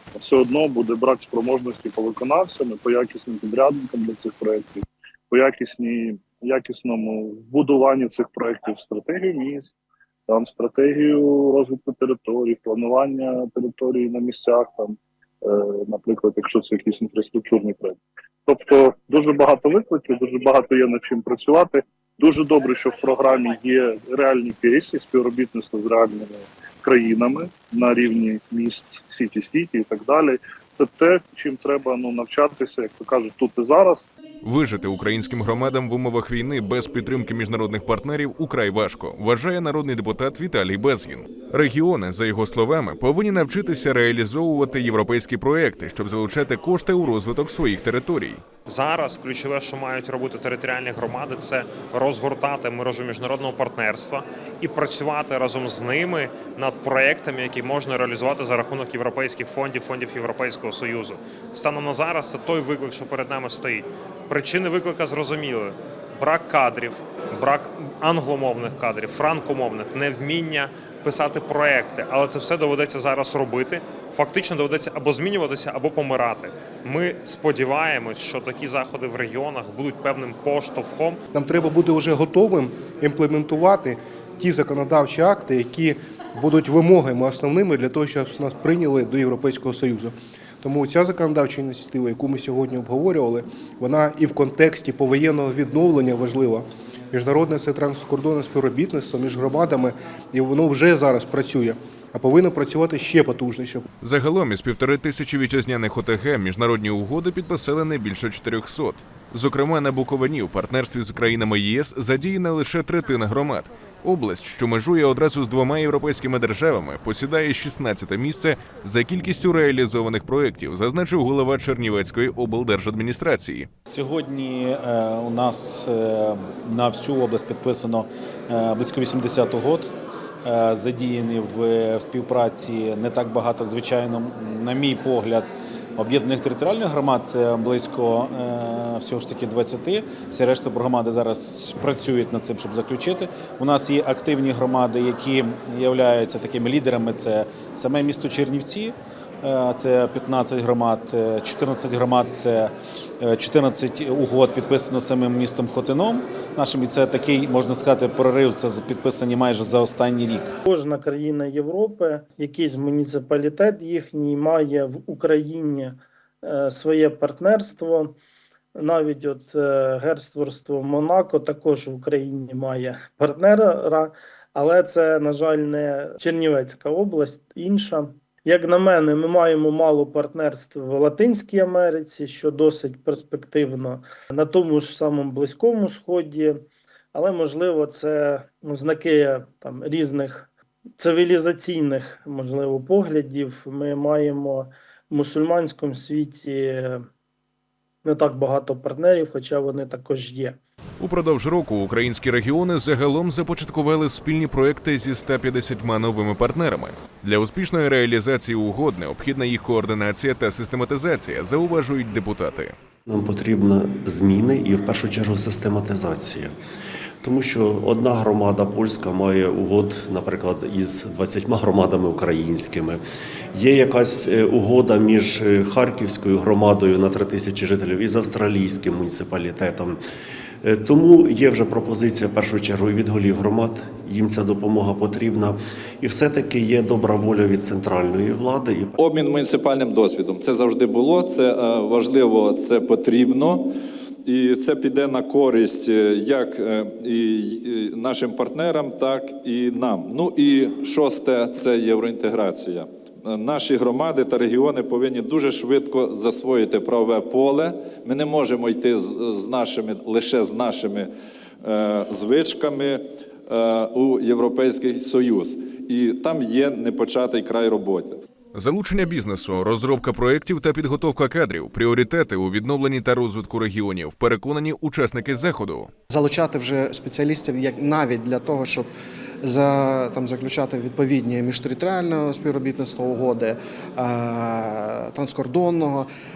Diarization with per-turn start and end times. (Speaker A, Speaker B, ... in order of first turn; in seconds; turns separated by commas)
Speaker A: 0.1-9.7, Speaker A: 10.3-34.1, Speaker B: 34.4-48.4, Speaker C: 48.7-81.2, Speaker D: 81.3-103.8, Speaker B: 104.0-123.7, Speaker E: 123.9-129.9, Speaker E: 130.4-135.5, Speaker E: 136.0-160.5, Speaker F: 160.7-168.2, Speaker F: 168.8-197.1, Speaker F: 198.0-200.6, Speaker B: 201.0-212.8, Speaker G: 213.1-216.5, Speaker G: 217.2-223.0, Speaker G: 223.5-230.0, Speaker G: 230.6-239.0, Speaker H: 239.0-243.7, Speaker H: 244.3-261.1, Speaker H: 261.6-268.2, Speaker B: 268.6-275.9, Speaker I: 276.1-278.9, Speaker I: 279.4-286.1